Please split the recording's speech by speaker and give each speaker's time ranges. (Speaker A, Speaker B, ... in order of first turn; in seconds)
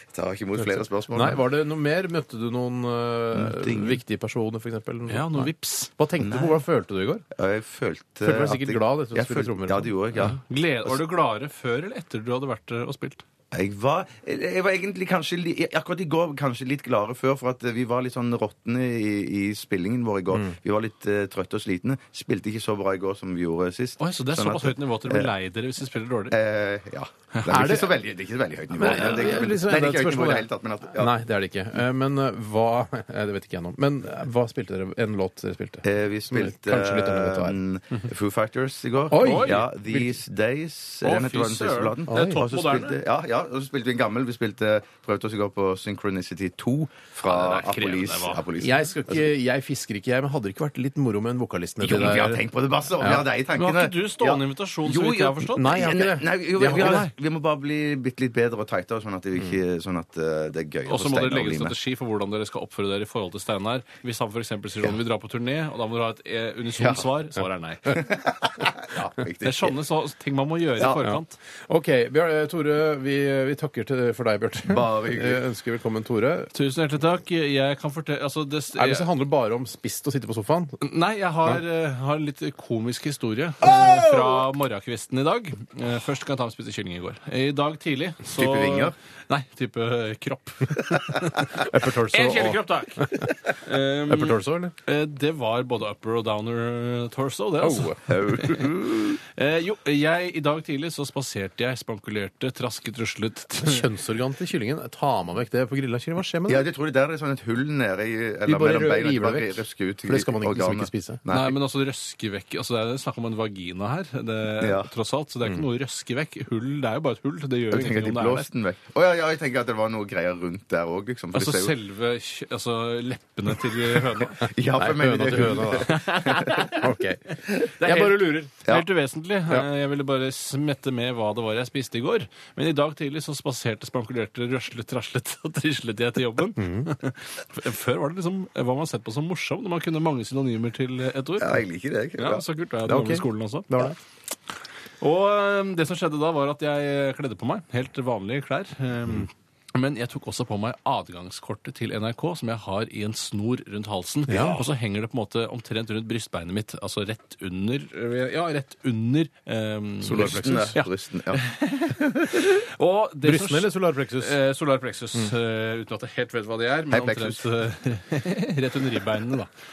Speaker A: 0.1-1.4, 3.3-4.0, 6.2-6.6, 7.3-11.0, 13.5-25.3, 26.3-31.2, 35.8-49.3, 51.8-61.8, 66.8-67.1, 67.9-69.8, 70.8-71.0, 74.7-75.4, 88.3-89.0, 98.1-99.2, 106.5-111.6, 114.6-114.9, 117.7-121.7, 124.4-126.7, 141.4-142.4, 160.1-162.3, 166.9-167.4
Speaker B: 0.6-7.2, 8.2-9.9, 27.5-27.9, 28.7-37.6, 39.1-40.1, 42.1-42.4, 48.6-52.4, 53.0-53.2, 55.6-57.1, 71.0-76.5, 78.8-80.8, 83.6-84.4, 91.6-93.3, 94.1-94.7, 97.6-98.2, 103.6-106.7, 108.5-111.2, 124.8-128.5, 136.6-136.9, 142.9-144.0, 154.3-154.6, 160.0-160.8, 163.2-164.4
Speaker C: 5.1-5.9, 10.2-13.2, 24.0-26.4, 39.1-39.7, 41.0-43.0, 47.2-48.5, 53.5-55.9, 56.7-57.1, 60.9-68.1, 69.4-71.4, 76.5-79.1, 80.8-103.9, 111.3-118.5, 121.3-124.5, 125.8-126.9, 127.8-141.6, 142.2-143.9, 145.0-169.5